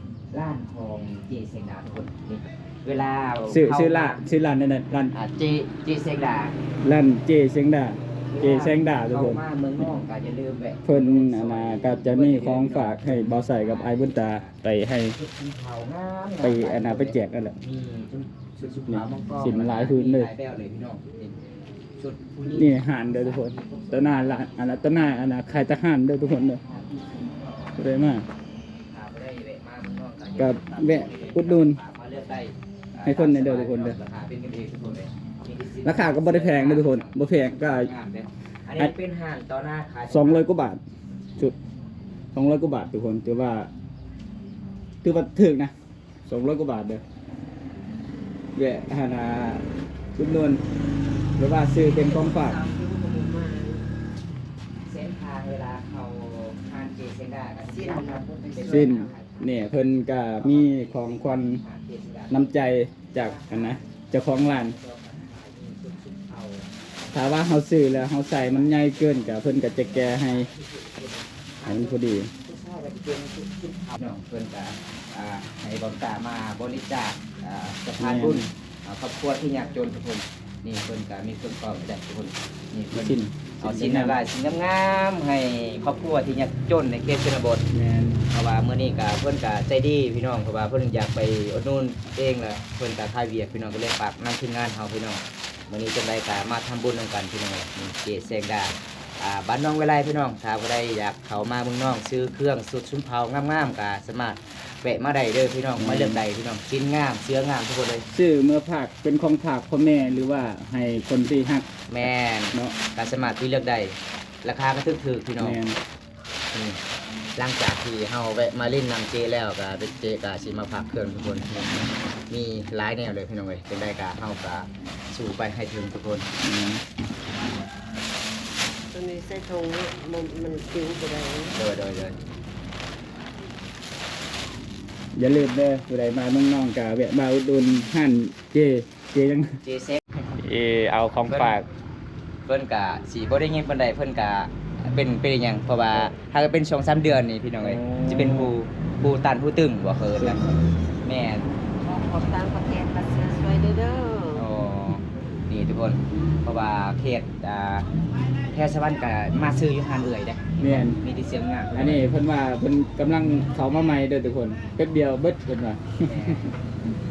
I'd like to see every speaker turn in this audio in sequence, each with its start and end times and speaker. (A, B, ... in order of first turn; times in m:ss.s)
0:00.3-0:04.2 A
0:03.5-0:05.1 B
0:05.1-0:06.6 A
0:06.8-0:09.8 B
0:08.3-0:14.6 A
0:10.8-0:15.2 B
0:15.1-0:21.4 A
0:16.4-0:17.6 B
0:18.9-0:20.3 B
0:22.0-0:25.0 A
0:22.5-0:26.6 B
0:26.3-0:27.7 A
0:27.8-0:28.3 B
0:28.9-0:40.5 A
0:30.4-0:31.8 B
0:33.0-0:34.0 B
0:35.8-0:37.9 B
0:40.1-0:40.8 B
0:42.3-0:43.7 B
0:45.0-0:45.7 B
0:46.3-0:47.0 B
0:48.6-0:49.6 B
0:50.2-0:50.6 B
0:51.4-0:52.6 B
0:52.3-0:53.9 C
0:54.8-1:07.1 A
0:57.7-0:59.1 C
0:58.6-1:01.6 B
1:02.3-1:04.8 B
1:07.1-1:10.5 B
1:08.0-1:27.7 A
1:11.6-1:12.3 B
1:18.0-1:18.5 B
1:22.9-1:24.2 B
1:27.7-1:28.2 B
1:28.3-1:48.1 A
1:45.8-1:46.2 B
1:48.1-1:52.8 B
1:51.9-1:55.6 A
1:55.4-1:55.8 B
1:56.5-1:56.8 A
1:57.4-2:06.3 A
2:06.4-2:06.8 B
2:08.9-2:11.6 C
2:11.5-2:12.2 A
2:15.2-2:19.6 B
2:19.6-2:20.2 A
2:20.4-2:21.7 B
2:22.5-2:30.4 A
2:27.6-2:28.5 B
2:30.2-2:30.6 B
2:31.0-2:31.5 A
2:31.8-2:34.4 C
2:34.3-2:37.9 A
2:38.5-2:42.1 A
2:40.6-2:41.0 B
2:41.7-2:46.4 B
2:46.0-2:46.5 A